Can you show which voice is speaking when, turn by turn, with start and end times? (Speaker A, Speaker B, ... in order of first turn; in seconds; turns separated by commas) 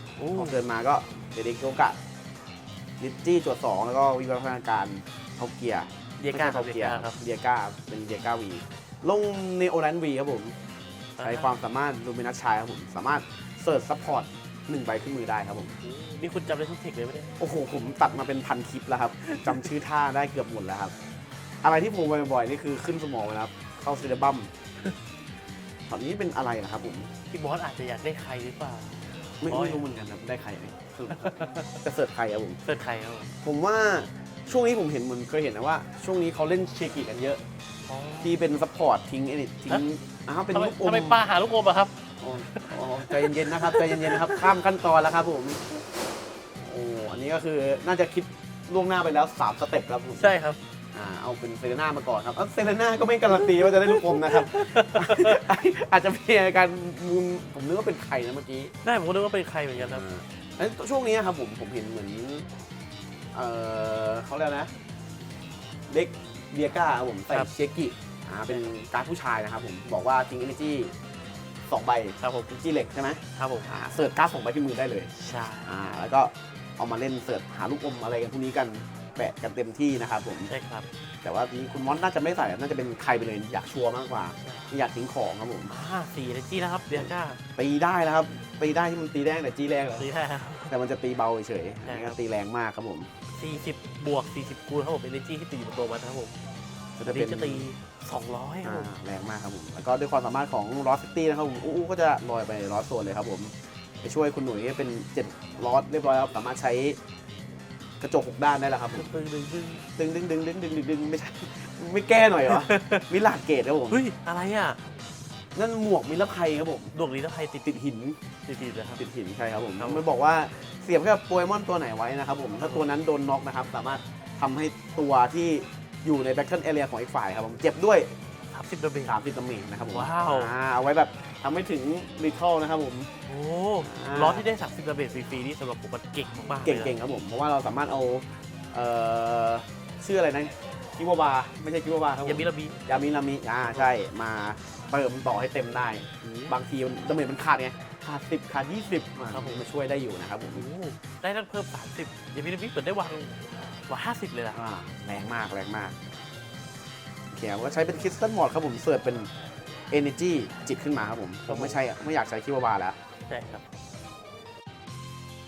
Speaker A: 0.2-0.6, Speaker B: 0.3-2.0, Speaker B: 3.0-10.6, Speaker A: 6.2-7.2, Speaker A: 11.2-11.5, Speaker B: 11.2-15.8, Speaker A: 15.8-17.3, Speaker B: 17.4-20.9, Speaker A: 19.2-19.7, Speaker B: 21.6-24.5, Speaker B: 25.9-27.1, Speaker A: 27.3-29.0, Speaker B: 29.4-32.6, Speaker A: 29.5-29.8, Speaker A: 31.1-31.5, Speaker A: 32.6-33.3, Speaker B: 33.4-37.4, Speaker A: 37.9-38.4, Speaker B: 38.2-41.2, Speaker A: 40.5-44.6, Speaker B: 42.2-45.8, Speaker B: 46.6-50.3, Speaker A: 50.2-50.6, Speaker B: 50.9-58.7, Speaker A: 53.3-55.5, Speaker A: 58.8-60.0, Speaker B: 59.8-62.5, Speaker B: 63.3-64.7, Speaker B: 65.9-70.9, Speaker B: 71.7-80.5, Speaker A: 72.2-72.5, Speaker A: 73.4-73.7, Speaker A: 75.2-76.1, Speaker A: 80.5-80.9, Speaker B: 81.2-85.7, Speaker A: 84.4-84.7, Speaker A: 85.7-87.4, Speaker B: 86.9-90.1, Speaker A: 90.0-90.8, Speaker B: 90.7-93.1, Speaker A: 91.8-92.2, Speaker A: 93.4-96.4, Speaker B: 97.0-97.7, Speaker A: 97.0-98.9, Speaker B: 98.6-107.0, Speaker B: 108.0-109.1, Speaker A: 108.9-109.8, Speaker B: 110.0-114.0, Speaker A: 112.4-113.1, Speaker A: 113.9-114.8, Speaker B: 115.5-116.9, Speaker A: 116.9-117.7, Speaker B: 117.6-118.2, Speaker A: 118.5-119.0, Speaker B: 119.0-128.1, Speaker A: 119.8-120.0, Speaker A: 122.6-122.9, Speaker A: 128.5-129.2, Speaker B: 129.0-133.1, Speaker A: 129.9-130.5, Speaker A: 133.3-137.0, Speaker B: 133.8-134.4, Speaker B: 136.6-150.6, Speaker A: 142.2-142.8, Speaker A: 146.2-146.6, Speaker A: 149.3-149.7, Speaker A: 150.5-154.6, Speaker B: 154.5-156.0, Speaker B: 157.3-159.3, Speaker B: 159.9-163.0, Speaker A: 161.5-161.8, Speaker A: 163.3-163.6